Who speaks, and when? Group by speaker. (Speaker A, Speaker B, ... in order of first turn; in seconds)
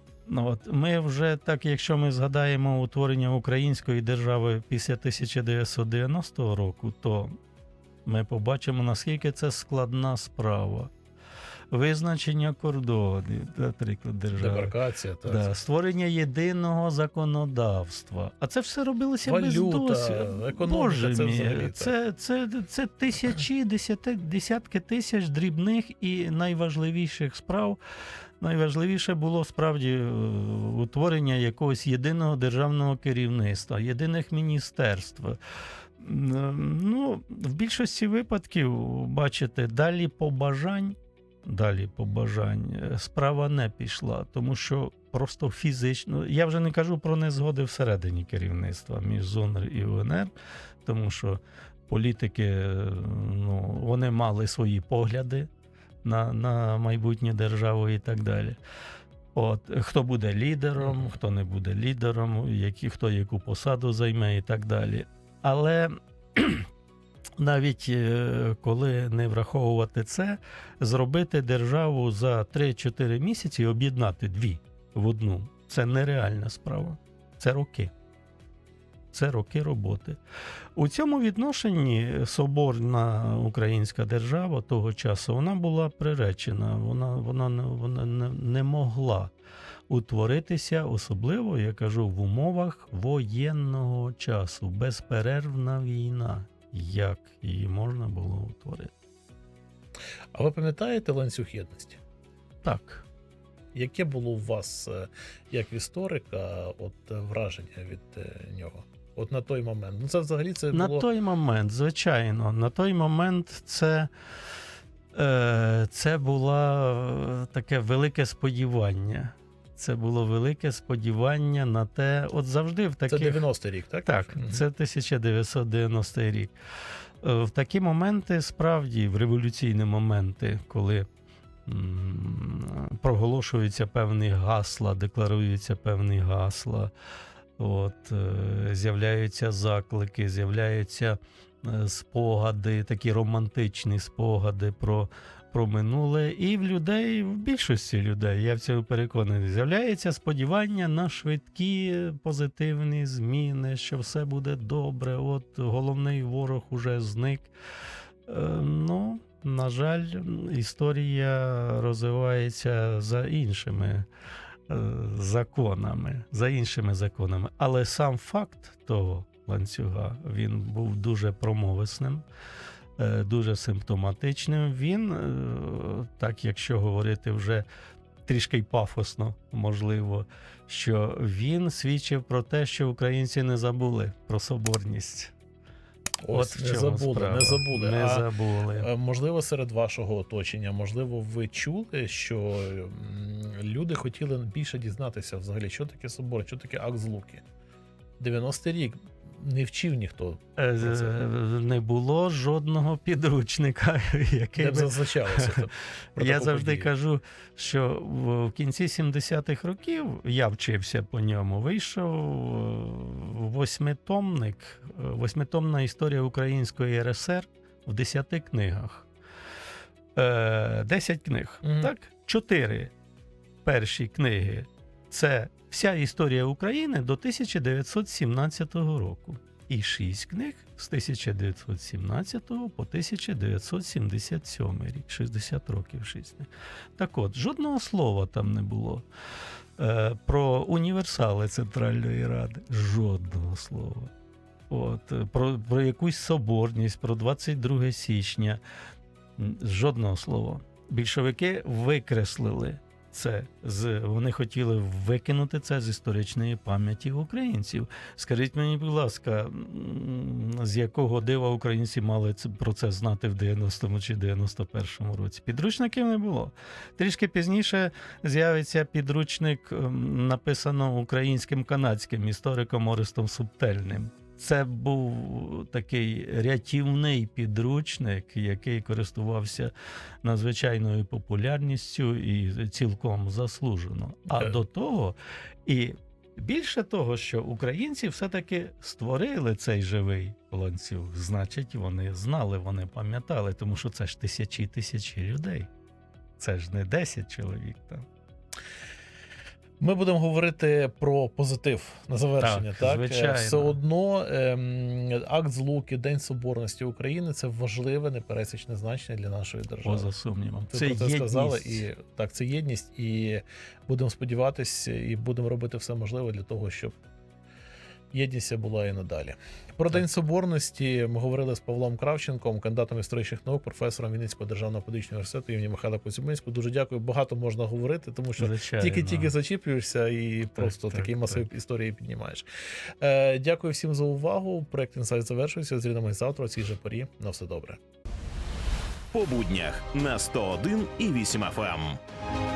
Speaker A: 0.2-7.3, 8.1-10.9, 11.7-27.8, 28.4-35.4, 36.0-50.3, 50.8-55.5, 56.0-58.6, 59.3-66.7, 67.4-77.9, 79.1-80.2, 80.8-89.3, 89.9-98.9, 102.6-103.0, 110.7-114.1, 115.1-123.4, 124.0-126.5, 127.2-131.1, 131.7-136.9, 137.6-157.5, 158.3-164.1, 164.7-172.2, 173.0-177.7, 178.2-185.3, 186.3-188.9, 200.6-205.6, 206.2-219.1, 220.2-222.9, 223.6-239.1, 239.8-244.1, 244.7-248.6, 249.4-279.7, 280.2-295.7, 296.4-298.1, 302.4-303.8, 309.8-311.9, 328.4-329.3, 330.6-331.4
Speaker B: 14.4-15.6, 19.2-21.9, 100.3-102.0, 103.8-111.1, 123.1-124.6, 186.2-188.2, 188.8-197.4, 198.2-201.2, 204.6-206.9, 221.6-221.9, 284.3-284.6, 299.8-310.1, 310.7-317.0, 318.1-332.4, 333.0-337.8
Speaker C: 339.1-342.0